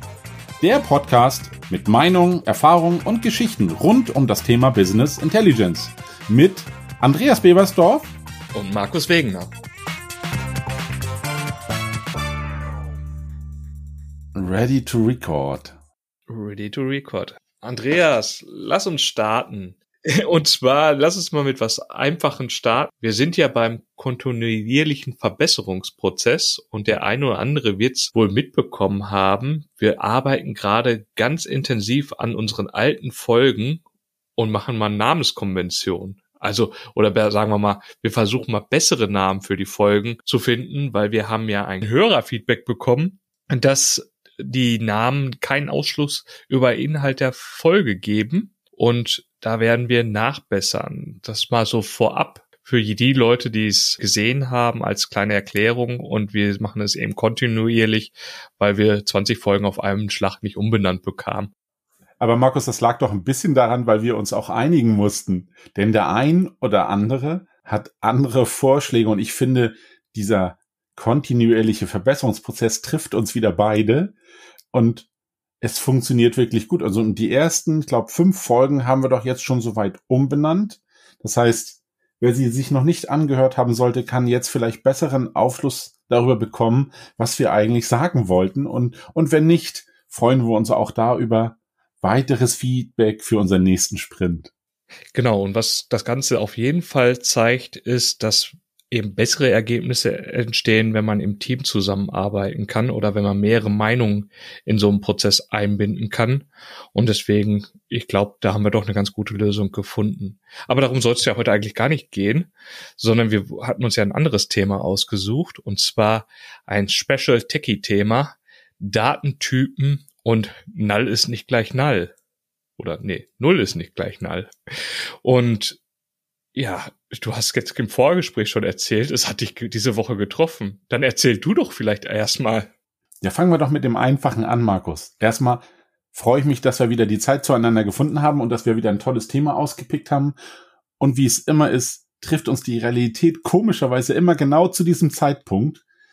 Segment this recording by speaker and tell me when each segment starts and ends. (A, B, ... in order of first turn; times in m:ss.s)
0:00.6-0:08.1 A
0:08.5-0:09.5 B
0:14.3-0:15.8 A
0:16.3-0:33.8 B
0:34.4-1:01.5 B
1:02.2-1:14.2 A
1:14.7-1:15.1 A
1:15.6-1:34.5 A
1:35.1-2:02.1 B
2:02.8-2:04.5 B
2:05.2-2:05.8 B
2:06.6-2:12.7 B
2:13.2-2:20.4 A
2:21.0-2:25.8 A